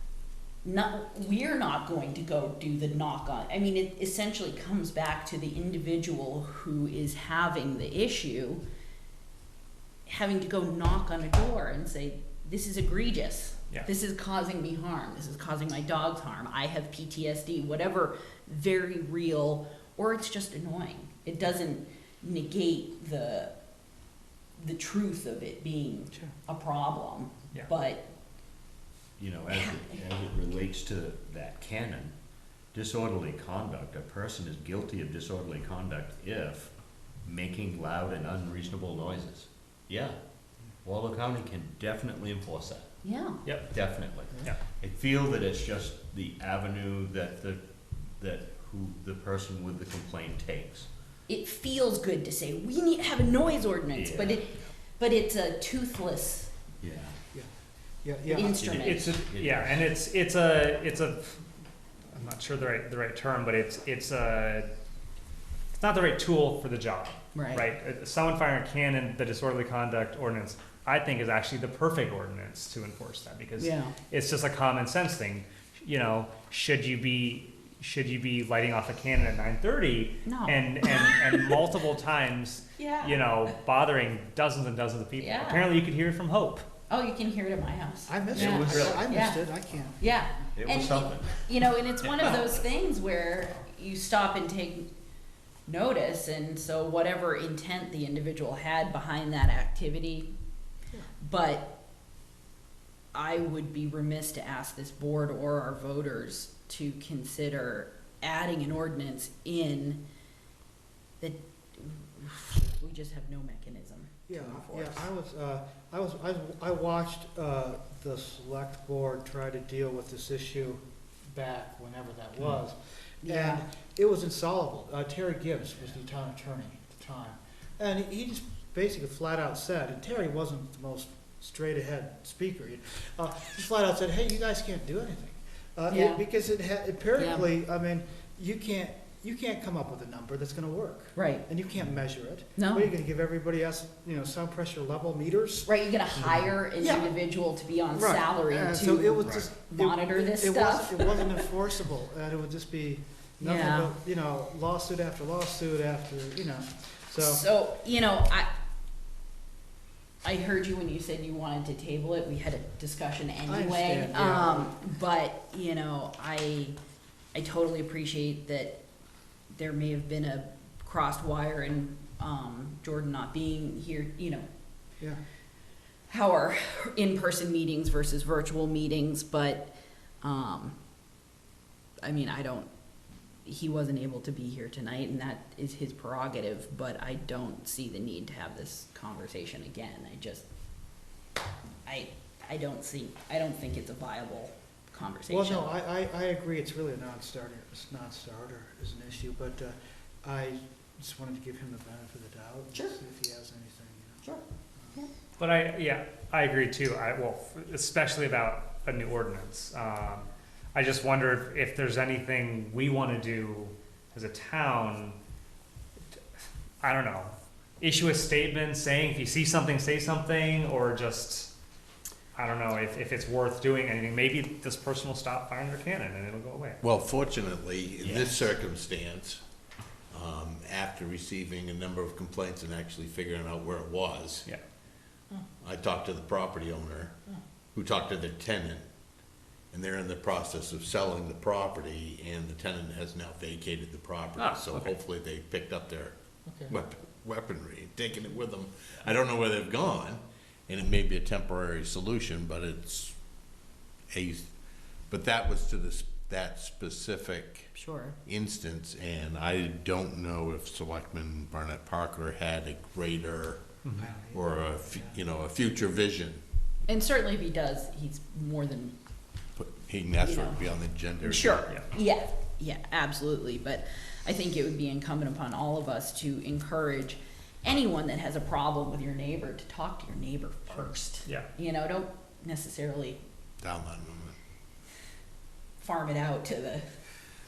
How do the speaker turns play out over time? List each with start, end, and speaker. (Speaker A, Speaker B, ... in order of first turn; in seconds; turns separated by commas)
Speaker A: 0.6-8.6, Speaker A: 10.1-23.5, Speaker A: 24.6-28.1, Speaker B: 29.2-32.1, Speaker A: 29.5-30.0, Speaker B: 32.7-36.7, Speaker B: 37.3-40.2, Speaker B: 40.8-42.9, Speaker A: 43.0-43.4, Speaker B: 43.7-50.9, Speaker A: 51.3-56.5, Speaker B: 53.9-54.4, Speaker B: 56.8-57.2, Speaker C: 58.0-58.6, Speaker A: 58.3-59.1, Speaker B: 58.6-59.9, Speaker D: 58.7-61.4, Speaker D: 62.1-64.7, Speaker D: 65.7-86.7, Speaker A: 67.3-67.6, Speaker A: 73.6-74.0, Speaker A: 80.2-81.6, Speaker A: 82.8-83.5, Speaker A: 85.2-85.7, Speaker A: 86.9-89.4, Speaker C: 88.1-90.0, Speaker B: 88.4-89.0, Speaker D: 88.5-89.0, Speaker A: 90.0-94.9, Speaker B: 90.6-92.7, Speaker A: 95.7-100.3, Speaker A: 101.2-101.7, Speaker A: 103.1-110.0, Speaker A: 111.2-115.1, Speaker C: 114.3-120.8, Speaker C: 121.3-147.1, Speaker A: 123.2-123.6, Speaker A: 135.9-136.2, Speaker A: 137.2-137.5, Speaker A: 141.2-141.5, Speaker A: 142.6-142.9, Speaker A: 145.7-151.4, Speaker C: 147.9-157.4, Speaker A: 153.4-153.9, Speaker A: 157.2-158.5, Speaker A: 160.2-166.8, Speaker C: 163.5-164.7, Speaker A: 167.3-168.8, Speaker A: 169.5-174.5, Speaker A: 176.1-180.8, Speaker A: 182.0-182.7, Speaker A: 183.4-190.5, Speaker A: 191.8-195.8, Speaker C: 195.3-204.2, Speaker D: 205.4-215.2, Speaker D: 216.8-221.5, Speaker D: 222.3-226.8, Speaker E: 226.8-229.4, Speaker D: 228.0-228.4, Speaker E: 230.1-234.5, Speaker E: 235.6-237.2, Speaker E: 237.8-238.8, Speaker E: 239.7-246.2, Speaker D: 244.4-244.9, Speaker C: 246.5-246.7, Speaker E: 246.7-253.2, Speaker E: 254.1-254.5, Speaker E: 255.1-263.7, Speaker A: 257.7-258.1, Speaker D: 263.8-264.1, Speaker C: 264.0-265.2, Speaker E: 264.3-266.4, Speaker A: 266.9-268.9, Speaker E: 269.6-271.7, Speaker A: 270.2-270.6, Speaker A: 271.2-283.2, Speaker E: 283.6-284.4, Speaker A: 285.8-286.9